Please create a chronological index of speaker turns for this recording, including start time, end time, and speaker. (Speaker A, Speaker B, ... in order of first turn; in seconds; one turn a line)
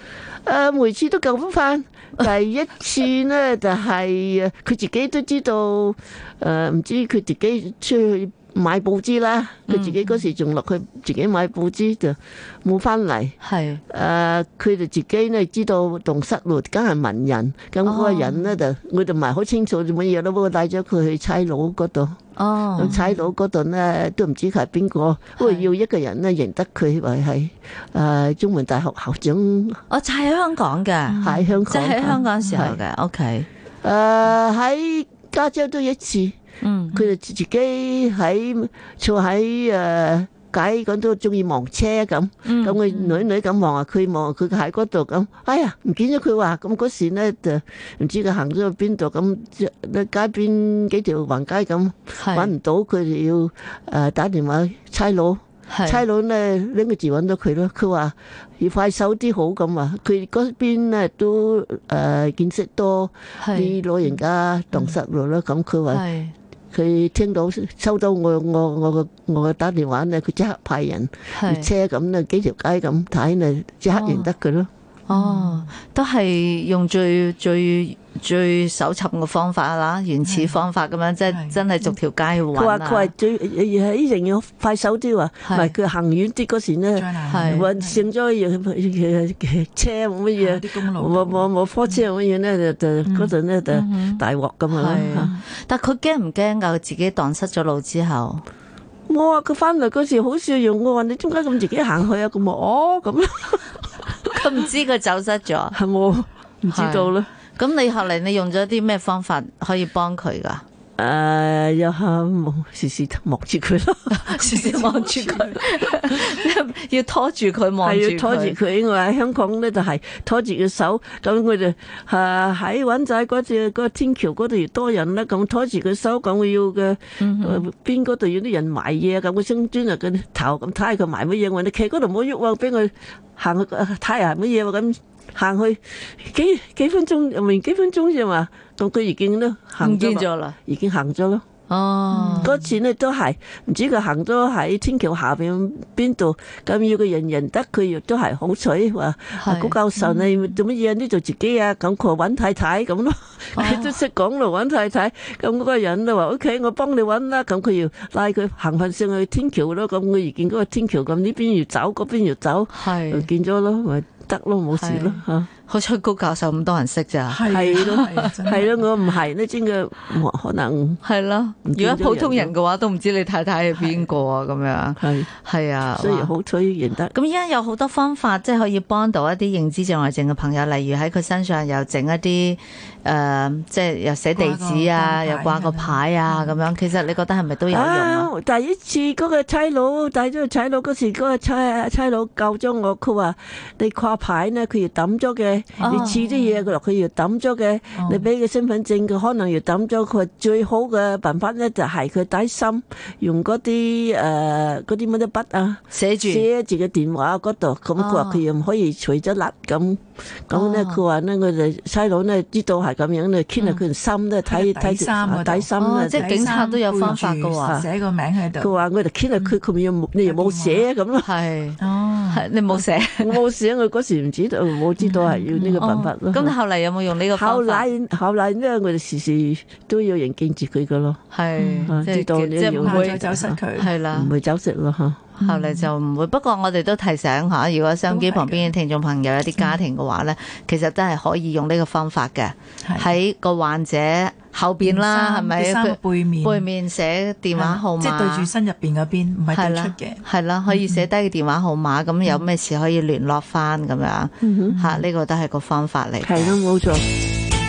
Speaker A: 0.5-13.4
Speaker B: 9.7-10.0
Speaker B: 13.4-13.8
Speaker A: 13.9-22.2
Speaker B: 17.9-18.5
Speaker B: 22.4-23.0
Speaker A: 22.8-29.8
Speaker B: 25.4-25.7
Speaker B: 29.9-33.5
Speaker C: 31.1-31.6
Speaker A: 31.2-32.8
Speaker C: 32.4-32.7
Speaker A: 33.8-36.4
Speaker B: 36.6-37.0
Speaker A: 36.9-66.0
Speaker B: 42.5-43.1
Speaker B: 52.2-52.5
Speaker B: 55.7-56.0
Speaker B: 63.4-63.8
Speaker B: 65.9-66.3
Speaker A: 66.7-74.7
Speaker B: 71.3-71.7
Speaker B: 73.9-74.3
Speaker B: 75.1-83.1
Speaker C: 75.1-75.7
Speaker C: 80.2-80.5
Speaker C: 81.3-81.6
Speaker A: 82.5-95.3
Speaker B: 85.5-85.7
Speaker C: 87.0-88.0
Speaker B: 87.3-87.7
Speaker C: 90.4-92.0
Speaker C: 93.1-93.3
Speaker B: 93.7-98.4
Speaker C: 95.0-95.4
Speaker A: 99.1-104.4
Speaker B: 104.3-105.8
Speaker A: 105.7-107.3
Speaker B: 106.7-110.6
Speaker A: 111.0-114.8
Speaker B: 114.1-118.6
Speaker C: 114.5-115.5
Speaker A: 117.8-141.4
Speaker B: 127.2-127.7
Speaker B: 139.8-140.6
Speaker B: 141.7-142.6
Speaker C: 142.1-142.5
Speaker A: 142.4-165.5
Speaker B: 149.4-149.8
Speaker B: 153.6-153.9
Speaker B: 162.7-163.3
Speaker B: 164.8-168.3
Speaker C: 167.3-168.8
Speaker A: 167.5-171.0
Speaker B: 171.0-176.3
Speaker A: 171.7-172.5
Speaker A: 175.0-175.3
Speaker A: 176.0-177.1
Speaker B: 177.1-188.3
Speaker C: 184.3-186.7
Speaker A: 187.7-216.7
Speaker C: 195.8-196.6
Speaker B: 195.8-196.2
Speaker C: 198.0-198.3
Speaker B: 205.9-206.5
Speaker B: 208.0-208.4
Speaker B: 210.5-211.0
Speaker C: 214.5-218.7
Speaker B: 215.8-217.8
Speaker A: 218.6-221.3
Speaker C: 220.2-220.9
Speaker B: 221.2-223.4
Speaker C: 221.8-222.4
Speaker A: 223.2-226.5
Speaker C: 225.0-225.9
Speaker B: 225.8-227.9
Speaker A: 227.3-231.2
Speaker B: 231.3-234.3
Speaker C: 231.6-232.0
Speaker A: 231.9-233.6
Speaker C: 232.8-233.9
Speaker A: 234.1-235.2
Speaker B: 235.4-248.5
Speaker C: 235.4-235.9
Speaker C: 238.1-238.7
Speaker C: 242.8-243.1
Speaker C: 244.8-246.7
Speaker C: 247.6-251.1
Speaker B: 249.5-256.5
Speaker A: 254.4-254.8
Speaker C: 254.7-255.1
Speaker A: 256.2-257.1